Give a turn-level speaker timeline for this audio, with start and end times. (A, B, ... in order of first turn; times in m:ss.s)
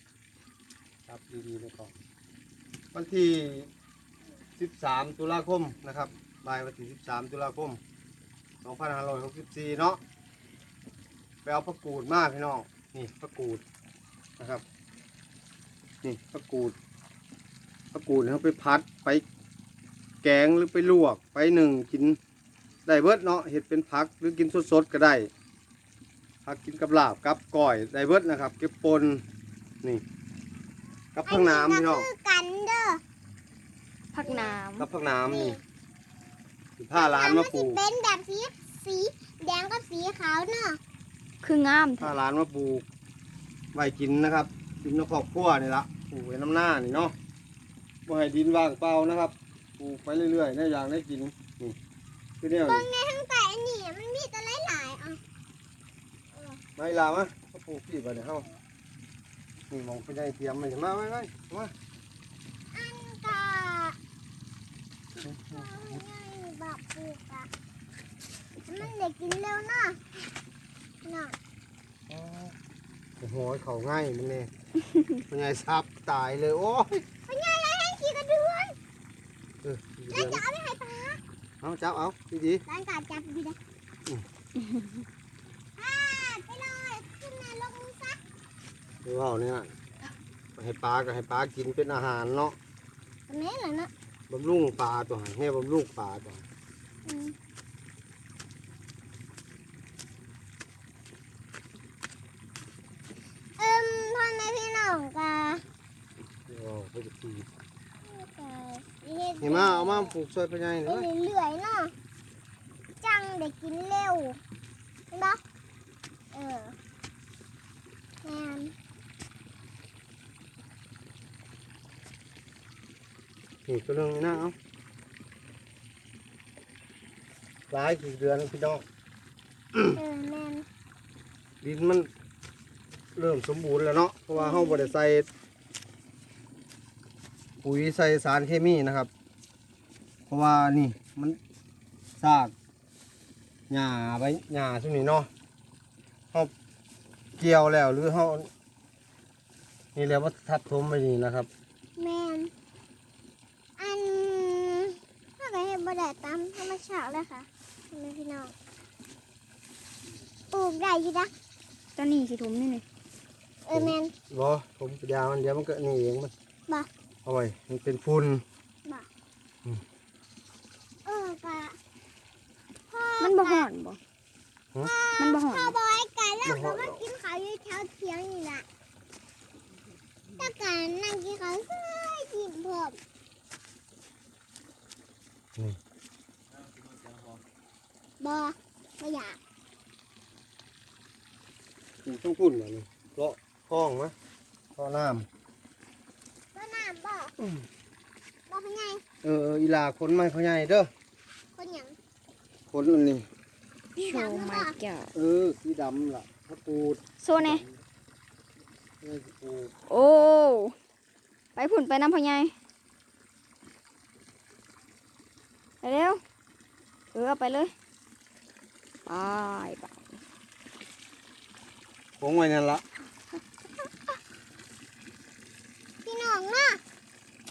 0:01.1-0:01.9 A
0:02.9-0:03.7 A
0:04.6-0:07.8 A
0:08.6-0:10.0 A
0:11.4-0:13.6 A
0:14.4-0:14.6 A
0:16.0-0:16.7 A
0:17.9-0:19.2 A
0:20.2-0:22.2 A
0:22.8-0:25.3 A
0:26.4-0:29.2 A
0:31.1-0:32.1 A
0:31.2-0:33.0 B
0:34.1-0:34.9 C
0:34.2-0:34.6 B
0:34.8-0:35.6 A
0:35.2-0:35.6 B
0:36.8-0:37.8 A
0:36.9-0:40.8 B
0:41.4-0:42.1 C
0:42.0-0:42.8 A
0:43.7-0:47.1 A
0:48.0-0:51.8 A
0:52.4-0:52.8 A
0:52.6-0:55.2 B
0:56.3-0:56.6 B
0:56.8-0:58.4 A
0:59.7-1:01.7 A
1:02.7-1:04.0 B
1:05.2-1:06.0 A
1:05.4-1:07.5 B
1:08.7-1:10.0 B
1:11.0-1:11.4 B
1:12.1-1:12.5 A
1:13.2-1:14.5 A
1:15.3-1:17.0 A
1:17.3-1:18.7 B
1:19.6-1:20.4 A
1:20.1-1:21.2 B
1:21.6-1:22.6 A
1:22.7-1:23.6 B
1:24.6-1:25.0 C
1:25.8-1:28.2 B
1:29.0-1:29.7 A
1:30.6-1:32.6 A
1:33.3-1:33.9 B
1:34.3-1:36.4 A
1:37.0-1:37.3 B
1:43.6-1:45.6 B
1:46.5-1:47.5 A
1:48.0-1:50.1 B
1:49.4-1:51.1 A
1:50.8-1:51.9 B
1:53.0-1:54.4 B
1:55.1-1:55.4 B
1:56.3-1:56.8 B
1:58.2-1:58.7 B
2:03.7-2:04.5 A
2:07.7-2:08.8 A
2:09.9-2:10.6 B
2:11.6-2:12.1 A
2:13.2-2:15.2 A
2:14.3-2:14.9 B
2:17.6-2:19.1 A
2:20.3-2:21.4 A
2:22.2-2:22.5 A
2:23.7-2:25.3 A
2:27.4-2:28.5 A
2:29.9-2:31.5 A
2:32.0-2:32.5 B
2:33.8-2:38.5 B
2:40.5-2:41.3 B
2:42.0-2:42.8 C
2:43.6-2:44.1 B
2:43.7-2:46.3 A
2:47.2-2:48.4 A
2:51.0-2:51.8 B
2:52.9-2:53.6 B
2:53.2-2:54.0 C
2:54.8-2:58.6 B
2:55.2-2:55.8 C
2:56.4-2:57.0 A
3:00.4-3:03.0 B
3:08.2-3:09.4 B
3:12.0-3:14.1 A
3:14.8-3:15.3 A
3:16.5-3:17.3 B
3:17.4-3:17.6 A
3:18.5-3:19.0 B
3:19.2-3:20.9 A
3:21.6-3:22.0 B
3:22.7-3:23.3 A
3:24.0-3:24.8 B
3:24.0-3:25.1 C
3:25.1-3:27.8 A
3:27.2-3:27.6 C
3:29.0-3:29.7 A
3:29.9-3:30.7 C
3:31.6-3:32.5 C
3:35.8-3:36.2 C
3:37.1-3:37.7 C
3:39.0-3:40.0 C
3:42.2-3:42.8 A
3:46.0-3:46.8 B